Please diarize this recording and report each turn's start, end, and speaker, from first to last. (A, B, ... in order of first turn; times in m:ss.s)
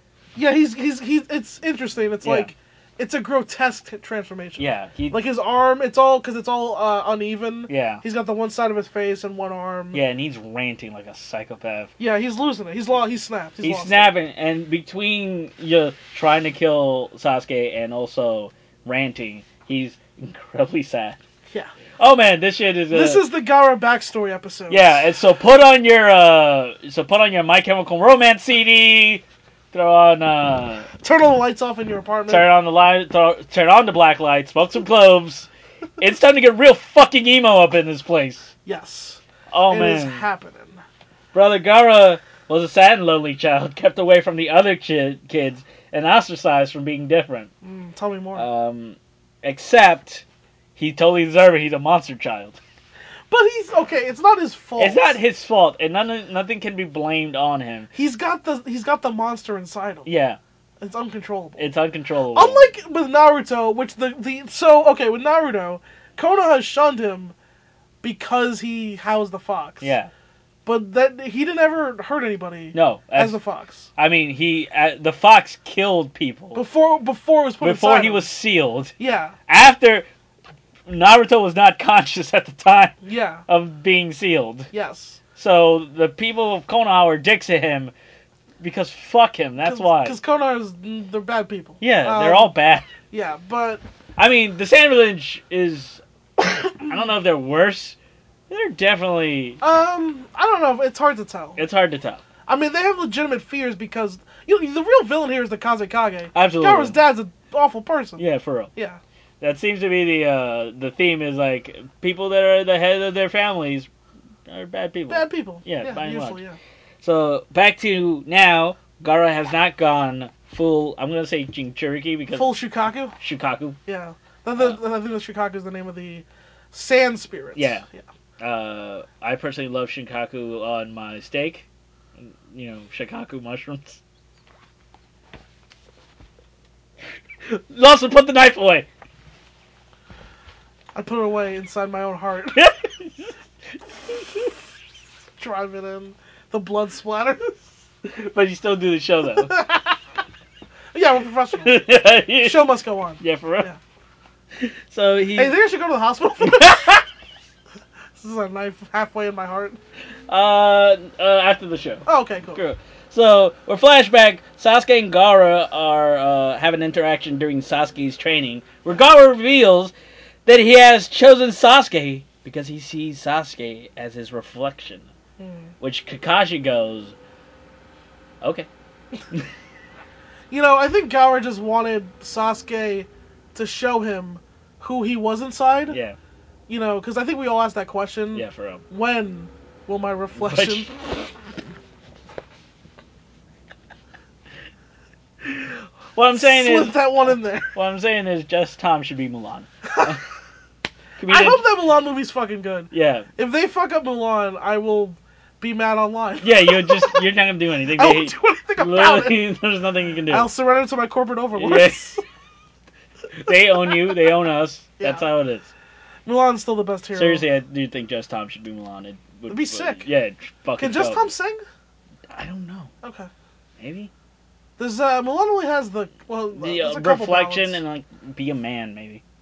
0:00.4-0:10.0 A
0:02.2-0:02.5 B
0:04.6-0:05.2 B
0:07.7-0:08.0 B
0:09.9-0:11.9 B
0:12.0-0:14.2 A
0:13.6-0:21.2 B
0:22.0-0:23.2 B
0:22.9-0:25.0 A
0:24.7-0:30.9 B
0:31.0-0:32.5 A
0:32.3-0:38.5 B
0:38.6-0:40.8 A
0:39.5-0:40.2 B
0:41.3-0:47.5 B
0:47.6-0:48.4 A
0:48.4-0:50.2 B
0:50.8-0:52.6 B
0:53.3-0:55.2 A
0:54.8-0:57.9 B
0:57.9-1:00.1 A
1:00.0-1:00.4 B
1:00.8-1:01.6 A
1:01.6-1:02.7 B
1:02.3-1:07.3 A
1:08.0-1:09.9 A
1:09.8-1:10.1 B
1:10.6-1:13.9 A
1:12.7-1:13.4 B
1:14.0-1:16.6 B
1:16.5-1:18.3 A
1:17.6-1:18.9 B
1:19.0-1:19.3 A
1:19.5-1:20.0 B
1:20.9-1:22.9 B
1:23.0-1:23.4 A
1:23.5-1:24.7 B
1:24.7-1:25.2 A
1:25.4-1:27.9 B
1:28.6-1:30.2 B
1:29.6-1:32.5 A
1:31.8-1:32.9 B
1:33.1-1:33.8 A
1:34.2-1:36.0 B
1:36.7-1:38.0 B
1:38.5-1:39.6 B
1:39.6-1:41.6 A
1:41.6-1:42.2 B
1:42.5-1:48.2 A
1:46.3-1:47.0 B
1:48.2-1:48.7 B
1:48.7-1:49.0 A
1:49.4-1:53.9 B
1:54.5-1:56.4 B
1:55.1-1:56.6 A
1:57.0-2:02.6 B
2:02.3-2:03.1 A
2:03.2-2:03.8 B
2:03.8-2:08.0 A
2:07.5-2:07.8 B
2:08.4-2:11.6 B
2:12.2-2:14.0 B
2:17.4-2:18.9 B
2:20.9-2:22.6 A
2:22.5-2:23.3 B
2:24.1-2:24.4 B
2:25.4-2:27.6 A
2:28.0-2:29.6 B
2:29.4-2:30.0 A
2:30.9-2:31.8 A
2:31.6-2:33.7 B
2:32.4-2:33.8 A
2:34.6-2:35.5 B
2:35.4-2:36.9 A
2:36.4-2:37.0 B
2:38.2-2:39.8 A
2:40.3-2:49.9 B
2:42.0-2:42.6 A
2:50.4-2:55.1 B
2:55.4-2:55.7 A
2:55.8-2:57.1 B
2:58.4-2:58.7 B
3:00.5-3:06.0 A
3:05.9-3:06.2 B
3:06.7-3:10.9 A
3:08.3-3:08.8 B
3:10.4-3:10.9 B
3:15.4-3:20.2 B
3:16.3-3:17.7 A
3:21.2-3:21.6 B
3:21.3-3:27.2 A
3:22.9-3:23.3 B
3:26.4-3:30.5 B
3:27.9-3:29.4 A
3:30.3-3:32.2 A
3:31.5-3:32.2 B
3:33.3-3:35.7 B
3:36.2-3:37.4 A
3:37.1-3:41.3 B
3:39.5-3:40.0 A
3:40.8-3:41.6 A
3:42.3-3:42.9 B
3:43.0-3:43.3 A
3:43.8-3:44.1 B
3:44.8-3:47.8 A
3:46.6-3:49.2 B